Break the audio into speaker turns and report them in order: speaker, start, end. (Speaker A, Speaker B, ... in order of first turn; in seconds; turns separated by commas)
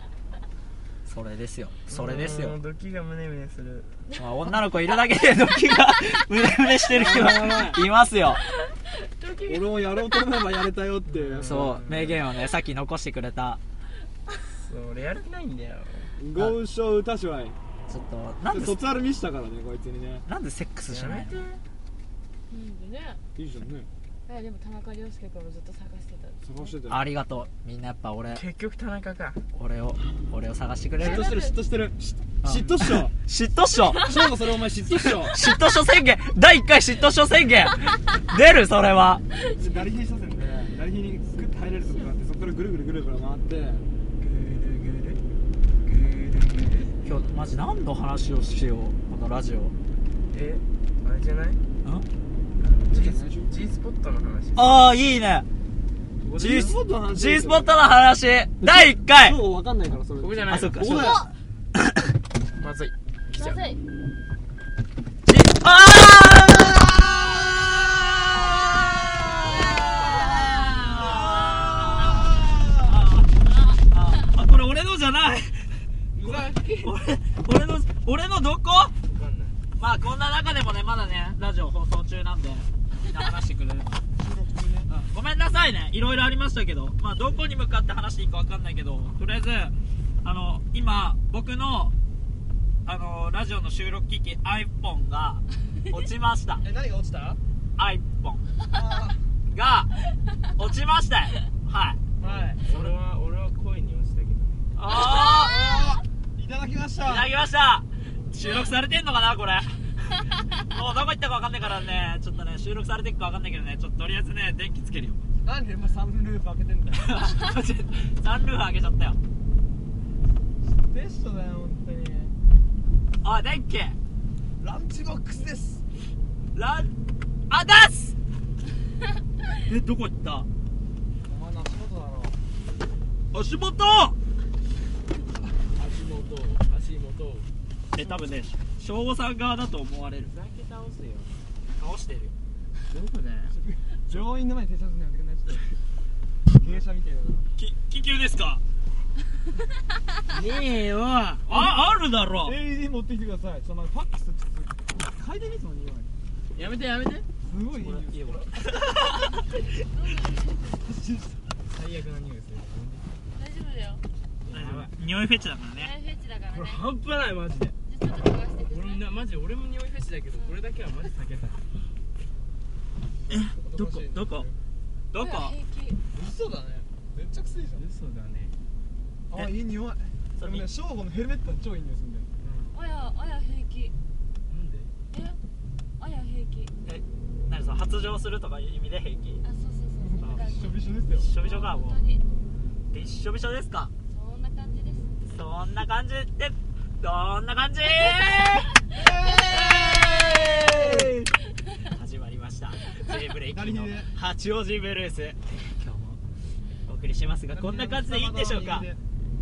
Speaker A: 1.1-2.6, Speaker B: 1.9-3.9, Speaker A: 4.2-8.4, Speaker C: 6.9-7.8, Speaker D: 8.4-9.8, Speaker C: 9.4-11.7, Speaker B: 11.1-12.2, Speaker A: 11.4-13.6, Speaker B: 14.5-16.1, Speaker C: 16.2-17.6, Speaker A: 17.9-18.8, Speaker C: 18.5-20.2, Speaker A: 20.3-21.4, Speaker B: 20.9-21.5, Speaker D: 22.5-23.2, Speaker C: 23.4-23.9, Speaker D: 24.2-26.7, Speaker C: 26.4-27.0, Speaker A: 26.9-28.4, Speaker B: 28.3-29.4, Speaker A: 29.5-31.3, Speaker C: 31.0-33.1, Speaker D: 31.0-31.5, Speaker A: 32.4-34.1, Speaker C: 34.0-35.4, Speaker A: 35.3-39.2, Speaker C: 39.5-43.8, Speaker B: 44.2-45.2, Speaker B: 45.9-46.9, Speaker A: 47.0-49.7, Speaker B: 50.3-51.6, Speaker B: 52.6-54.9, Speaker C: 52.9-53.5, Speaker A: 54.5-55.5, Speaker B: 56.2-56.7, Speaker C: 56.4-57.8, Speaker A: 56.6-59.4, Speaker C: 58.6-61.3, Speaker B: 60.2-60.9, Speaker A: 60.5-61.2, Speaker B: 62.6-63.6, Speaker D: 63.3-63.8, Speaker A: 65.2-78.9, Speaker D: 69.5-70.5, Speaker C: 71.0-72.9, Speaker B: 76.1-76.9, Speaker B: 79.0-79.6, Speaker A: 79.8-84.0, Speaker C: 84.2-84.9, Speaker A: 84.9-91.9, Speaker A: 92.8-96.6, Speaker C: 96.6-97.4, Speaker A: 97.8-98.4, Speaker C: 98.6-99.2, Speaker A: 99.5-99.9, Speaker A: 100.5-102.0, Speaker C: 102.2-102.8, Speaker B: 102.2-104.6, Speaker A: 104.8-105.6, Speaker D: 105.0-105.9, Speaker C: 105.4-107.3, Speaker A: 107.0-115.2, Speaker C: 115.4-117.1, Speaker A: 117.0-119.2, Speaker C: 120.6-122.3, Speaker A: 123.2-123.9, Speaker C: 124.6-125.8, Speaker A: 126.5-126.9, Speaker A: 127.5-128.2, Speaker A: 129.6-130.5, Speaker C: 131.2-132.4, Speaker A: 133.3-134.2, Speaker B: 135.7-137.5, Speaker A: 137.9-140.3, Speaker B: 140.3-141.3, Speaker A: 141.8-142.3, Speaker B: 142.9-143.5, Speaker C: 143.5-145.7, Speaker C: 146.5-147.5, Speaker A: 147.6-148.6, Speaker B: 150.2-151.5, Speaker A: 151.5-152.5, Speaker C: 152.4-156.1, Speaker B: 156.5-157.3, Speaker C: 157.4-158.6, Speaker A: 157.7-159.4, Speaker D: 159.1-160.8, Speaker C: 160.8-161.5, Speaker B: 161.7-163.1, Speaker D: 163.3-164.1, Speaker B: 164.4-164.9, Speaker A: 164.5-165.9, Speaker D: 165.8-166.9, Speaker B: 166.5-167.8, Speaker D: 167.9-169.1, Speaker B: 168.6-171.6, Speaker D: 170.3-170.6, Speaker A: 173.3-174.5, Speaker C: 173.3-174.5, Speaker A: 175.1-175.6, Speaker D: 175.2-176.0, Speaker C: 176.1-177.8, Speaker B: 177.8-178.6, Speaker C: 179.3-182.3, Speaker A: 180.4-180.7, Speaker B: 182.4-182.8, Speaker D: 182.7-183.9, Speaker B: 184.5-184.9, Speaker D: 185.1-185.4, Speaker D: 186.0-186.7, Speaker A: 186.8-189.4, Speaker D: 189.4-192.2, Speaker C: 190.0-191.3, Speaker A: 191.1-192.0, Speaker A: 192.9-193.9, Speaker D: 194.1-195.3, Speaker A: 195.2-201.0, Speaker C: 199.0-201.1, Speaker B: 200.8-201.2, Speaker A: 201.7-206.2, Speaker C: 203.5-204.1, Speaker A: 206.8-208.9, Speaker C: 207.5-209.0